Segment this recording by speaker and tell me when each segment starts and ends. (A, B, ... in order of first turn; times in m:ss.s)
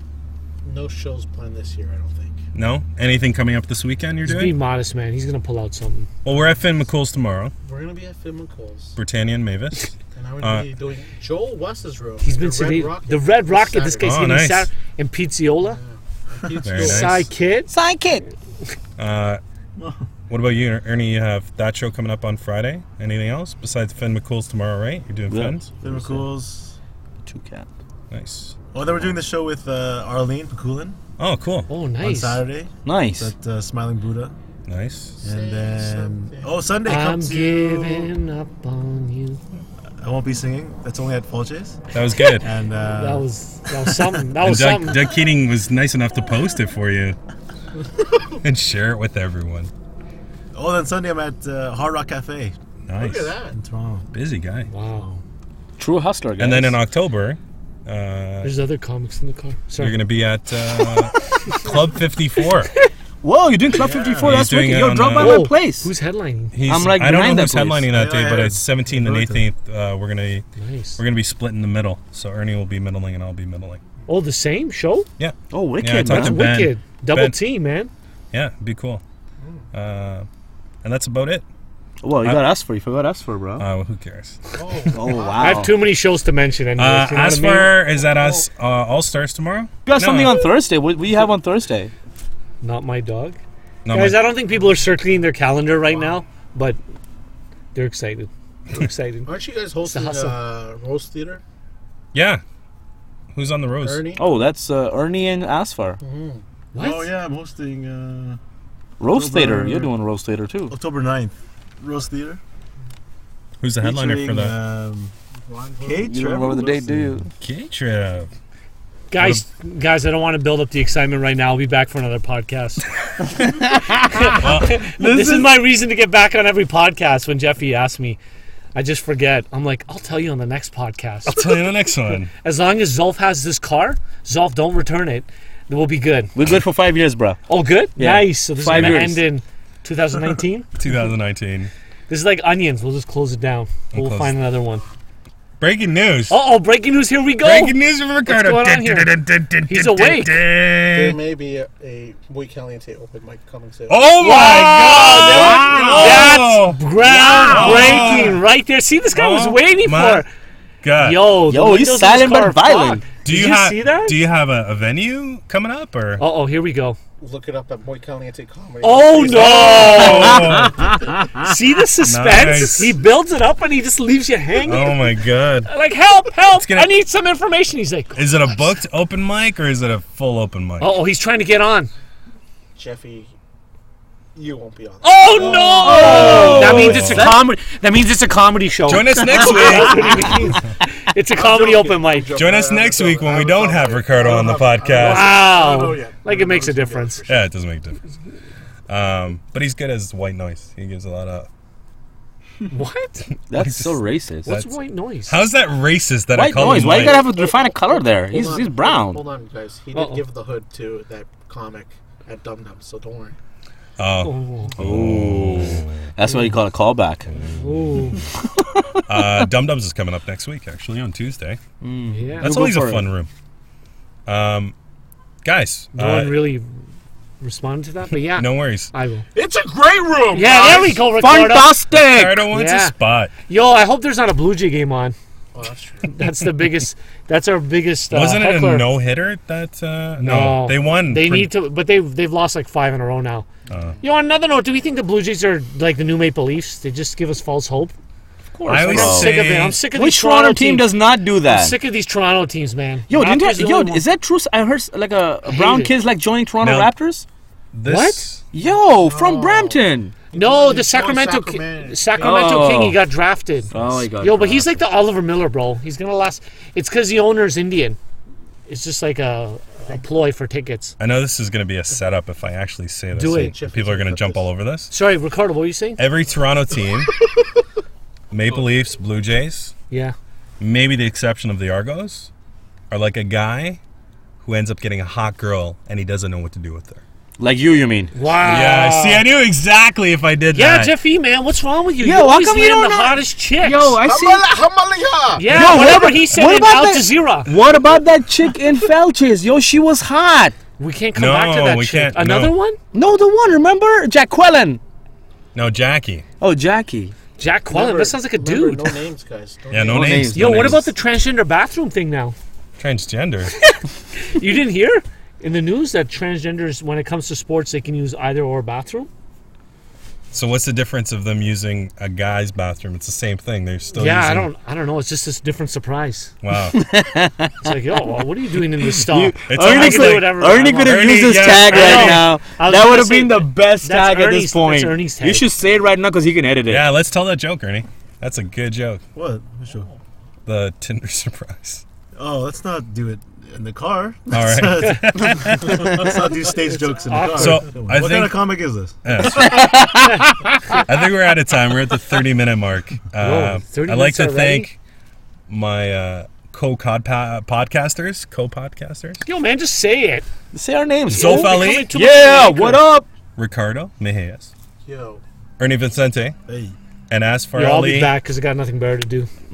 0:00.6-0:02.4 A
0:02.6-0:04.5 B
0:04.2-0:06.1 C
0:06.2-0:07.5 B
0:07.6-0:09.0 A
0:09.0-0:10.7 B
0:10.1-0:14.3 A
0:12.2-0:15.8 C
0:14.0-0:14.7 B
0:15.7-0:17.2 A
0:16.4-0:16.8 D
0:16.6-0:17.3 B
0:16.8-0:17.7 C
0:17.7-0:18.3 E
0:19.0-0:19.4 B
0:19.8-0:20.0 D
0:20.3-0:25.7 B
0:25.3-0:26.2 E
0:25.8-0:26.8 D
0:27.3-0:27.7 E
0:28.1-0:28.9 B
0:28.7-0:31.0 D
0:31.2-0:31.7 B
0:31.7-0:32.4 C
0:32.0-0:34.4 D
0:32.8-0:33.3 E
0:34.7-0:35.2 B
0:35.2-0:36.6 A
0:35.2-0:38.1 D
0:36.8-0:39.4 C
0:40.0-0:41.8 D
0:41.9-0:42.5 B
0:42.4-0:44.0 D
0:43.0-0:45.0 C
0:44.4-0:47.2 B
0:48.4-0:49.7 B
0:50.5-0:52.6 D
0:52.9-0:53.3 B
0:53.0-0:53.6 A
0:53.5-0:54.1 D
0:54.1-0:54.7 B
0:54.7-0:55.1 C
0:55.0-0:55.2 D
0:55.8-0:56.8 E
0:56.4-0:58.6 B
0:58.4-1:00.0 C
0:59.8-1:02.7 B
1:00.9-1:01.4 E
1:03.2-1:05.9 E
1:03.8-1:04.5 D
1:04.2-1:05.5 B
1:05.2-1:06.6 C
1:06.5-1:10.5 B
1:06.7-1:07.9 E
1:07.9-1:09.5 D
1:10.6-1:11.0 C
1:11.0-1:13.8 B
1:14.1-1:15.1 C
1:15.2-1:17.4 B
1:15.5-1:16.5 E
1:16.1-1:17.9 C
1:18.3-1:19.0 B
1:19.7-1:20.3 B
1:20.8-1:21.4 B
1:22.0-1:23.7 E
1:23.6-1:24.4 B
1:24.6-1:25.7 A
1:24.9-1:25.8 E
1:25.4-1:27.8 C
1:26.8-1:30.5 B
1:29.9-1:31.9 E
1:32.6-1:33.4 C
1:33.8-1:34.2 B
1:33.9-1:36.8 C
1:37.8-1:39.3 C
1:39.3-1:41.4 A
1:39.9-1:40.4 C
1:42.1-1:42.4 B
1:43.3-1:44.0 B
1:43.8-1:44.3 A
1:44.2-1:46.0 E
1:46.0-1:46.4 A
1:46.7-1:47.1 C
1:46.8-1:48.4 D
1:49.0-1:50.7 E
1:49.1-1:49.9 D
1:50.7-1:52.4 D
1:53.6-1:54.6 B
1:53.8-1:55.1 D
1:55.4-1:56.0 A
1:55.8-1:57.2 D
1:55.9-1:57.3 E
1:57.4-1:58.3 B
1:59.1-2:02.8 C
1:59.2-1:59.4 B
2:03.2-2:05.6 E
2:04.0-2:08.2 C
2:04.4-2:04.8 B
2:08.8-2:11.5 C
2:11.3-2:12.3 B
2:12.4-2:16.3 C
2:16.4-2:17.4 E
2:17.5-2:20.7 C
2:18.0-2:19.2 E
2:18.7-2:19.0 B
2:20.8-2:21.7 B
2:22.1-2:24.8 C
2:23.9-2:24.4 B
2:25.6-2:26.4 B
2:26.3-2:29.1 C
2:27.4-2:31.2 B
2:29.7-2:30.4 C
2:30.9-2:34.1 A
2:33.9-2:38.4 B
2:34.2-2:40.3 C
2:34.9-2:36.0 A
2:35.2-2:36.3 E
2:37.6-2:38.0 E
2:39.1-2:40.2 B
2:40.8-2:41.3 B
2:41.0-2:44.2 C
2:41.5-2:43.0 E
2:43.2-2:46.2 B
2:46.2-2:47.0 C
2:47.2-2:50.5 A
2:48.8-2:50.6 C
2:49.3-2:50.9 B
2:50.1-2:51.5 E
2:51.4-2:55.1 C
2:52.0-2:53.0 B
2:54.6-2:55.7 B
2:55.7-2:58.6 C
2:56.5-2:56.9 B
2:58.2-3:01.0 B
3:00.8-3:01.9 C
3:02.8-3:03.3 A
3:04.4-3:07.2 A
3:05.0-3:12.3 C
3:05.4-3:07.4 E
3:06.0-3:07.3 B
3:08.9-3:10.4 B
3:09.2-3:10.7 A
3:11.3-3:17.4 A
3:12.3-3:15.4 B
3:15.0-3:17.2 C
3:17.3-3:18.0 B
3:18.9-3:21.5 B
3:22.7-3:23.3 C
3:23.5-3:24.5 E
3:23.5-3:27.2 B
3:24.5-3:25.4 C
3:26.3-3:29.2 E
3:26.7-3:33.4 A
3:29.9-3:30.2 C
3:34.0-3:36.0 B
3:34.2-3:34.8 C
3:34.8-3:37.5 E
3:37.4-3:38.3 C
3:38.4-3:39.0 E
3:39.1-3:41.6 B
3:41.8-3:43.1 E
3:42.1-3:42.5 C
3:42.4-3:43.3 B
3:44.3-3:44.7 B
3:45.4-3:46.4 B
3:46.0-3:46.7 C
3:47.4-3:49.3 C
3:48.4-3:48.9 B
3:49.3-3:51.0 A
3:50.3-3:51.8 C
3:50.6-3:52.5 E
3:51.9-3:53.3 B
3:52.5-3:53.0 C
3:53.5-3:55.2 C
3:55.5-3:56.1 A
3:56.1-3:58.9 C
3:58.1-4:01.5 B
4:00.2-4:03.5 C
4:03.7-4:04.0 B
4:04.0-4:07.9 C
4:08.5-4:09.4 E
4:08.6-4:14.0 C
4:08.6-4:09.8 B
4:09.9-4:11.8 E
4:13.1-4:17.2 E
4:15.5-4:15.9 C
4:16.6-4:17.0 B
4:17.7-4:18.4 B
4:17.8-4:18.3 C
4:18.5-4:20.1 E
4:18.6-4:22.6 A
4:20.3-4:28.0 C
4:22.2-4:23.0 E
4:23.7-4:24.0 B
4:23.7-4:24.9 E
4:28.7-4:31.0 C
4:31.0-4:34.9 B
4:33.1-4:33.6 C
4:33.3-4:34.5 A
4:34.9-4:36.0 C
4:36.0-4:37.1 B
4:38.3-4:39.7 B
4:39.9-4:40.2 C
4:40.6-4:42.3 B
4:42.9-4:43.8 B
4:44.4-4:47.0 B
4:47.4-4:48.1 E
4:48.1-4:49.3 C
4:48.4-4:50.9 B
4:50.5-4:54.0 C
4:52.0-4:54.4 E
4:54.0-4:56.2 A
4:55.4-4:57.5 C
4:55.5-5:00.6 E
5:00.8-5:02.8 C
5:01.2-5:02.5 B
5:02.9-5:04.8 E
5:05.6-5:06.2 B
5:06.4-5:07.1 E
5:07.4-5:09.0 C
5:07.7-5:10.3 A
5:09.7-5:10.8 B
5:09.9-5:10.8 E
5:10.3-5:12.4 C
5:12.8-5:13.5 B
5:13.6-5:19.1 C
5:20.3-5:24.5 B
5:23.9-5:26.3 C
5:26.4-5:26.8 B
5:26.7-5:27.7 E
5:27.6-5:35.5 C
5:28.8-5:36.8 E
5:29.5-5:32.3 B
5:36.7-5:39.0 B
5:39.2-5:39.9 D
5:40.5-5:41.8 B
5:42.2-5:49.6 D
5:44.3-5:46.3 B
5:47.0-5:47.7 C
5:47.4-5:48.4 B
5:49.0-5:54.8 B
5:49.3-5:50.3 E
5:53.2-5:54.7 C
5:55.5-5:59.2 B
5:59.2-6:00.3 C
6:00.5-6:03.1 E
6:01.1-6:01.9 B
6:01.1-6:02.8 C
6:03.4-6:04.5 B
6:04.8-6:05.2 A
6:05.6-6:06.4 B
6:06.5-6:06.8 D
6:07.1-6:08.1 B
6:07.6-6:09.3 C